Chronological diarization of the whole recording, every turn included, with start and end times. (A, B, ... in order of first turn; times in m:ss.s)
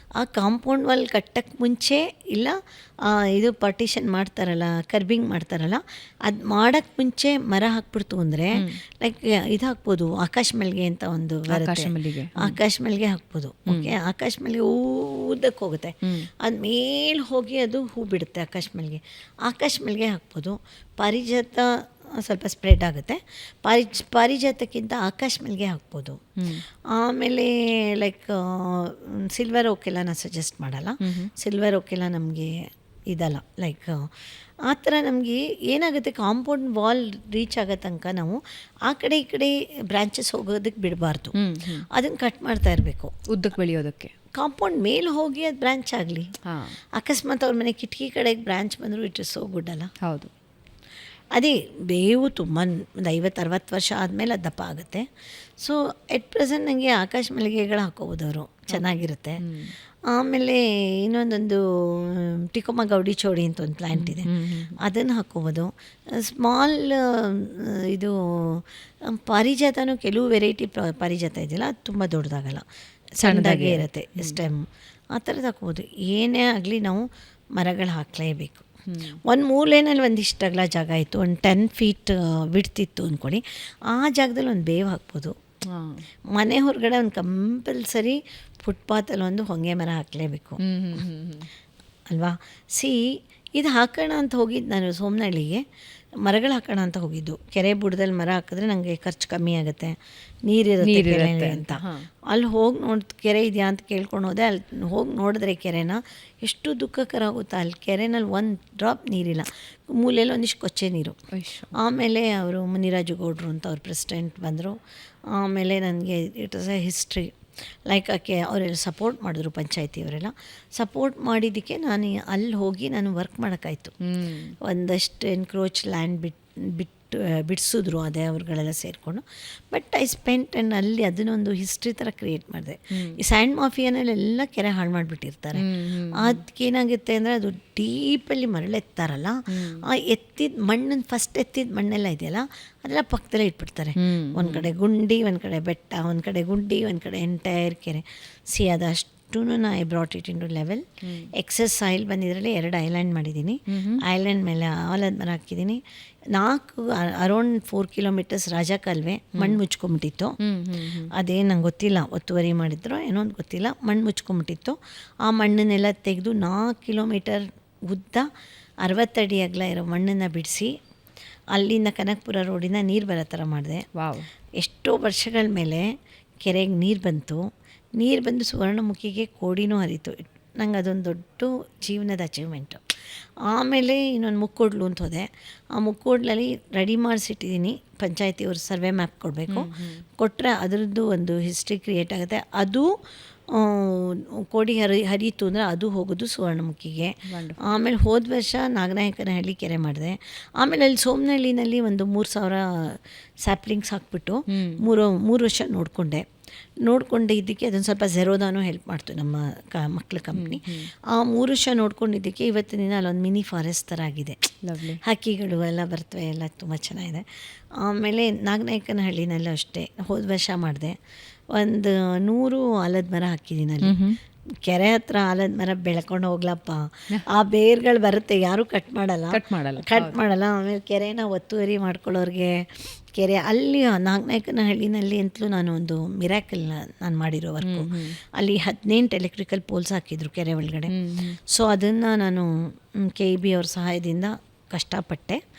0:00.2-0:26.3 A
0:11.5-0:12.6 B
0:13.7-0:13.9 B
0:26.4-0:26.6 B
0:26.9-0:34.1 A
0:31.0-0:31.3 B
0:34.7-0:41.3 A
0:41.4-0:41.9 B
0:41.9-0:43.1 A
0:43.3-0:44.1 B
0:44.4-0:46.3 A
0:46.5-0:46.8 B
0:47.0-0:49.9 A
0:50.0-0:50.3 B
0:51.4-0:55.1 A
0:55.6-0:59.4 A
0:59.4-0:59.7 B
1:00.1-1:12.6 A
1:03.9-1:04.8 B
1:13.2-1:14.6 A
1:13.2-1:14.4 B
1:15.1-1:17.0 A
1:17.6-1:18.7 A
1:18.9-1:19.2 B
1:19.2-1:25.4 A
1:25.7-1:26.0 B
1:26.3-1:30.6 A
1:30.6-1:31.5 B
1:32.1-1:33.0 A
1:33.6-1:35.6 A
1:36.2-1:51.2 A
1:40.8-1:42.1 B
1:51.3-1:51.7 B
1:51.7-1:54.8 A
1:55.3-1:57.3 A
1:57.9-2:04.0 A
2:04.0-2:04.6 B
2:04.6-2:30.8 A
2:13.0-2:13.2 B
2:15.6-2:16.4 B
2:19.5-2:19.9 B
2:24.0-2:24.7 B
2:31.0-2:31.3 B
2:31.4-2:35.8 A
2:33.7-2:34.0 B
2:36.3-2:40.4 A
2:39.3-2:39.6 B
2:40.4-2:41.1 B
2:41.1-2:48.3 A
2:48.8-2:50.7 A
2:51.5-2:53.9 A
2:54.0-2:54.3 B
2:54.6-2:55.9 A
2:56.4-2:57.4 A
2:58.0-3:02.8 A
3:03.5-3:12.9 A
3:09.5-3:10.0 B
3:13.5-3:26.2 A
3:17.3-3:17.7 B
3:24.5-3:24.8 B
3:26.8-3:37.2 A
3:30.3-3:30.9 B
3:34.6-3:35.0 B
3:37.8-3:41.0 A
3:41.5-3:44.0 A
3:43.8-3:44.2 B
3:44.6-4:00.9 A
3:49.3-3:50.2 B
3:57.6-3:58.2 B
4:00.9-4:01.4 B
4:01.5-4:05.4 A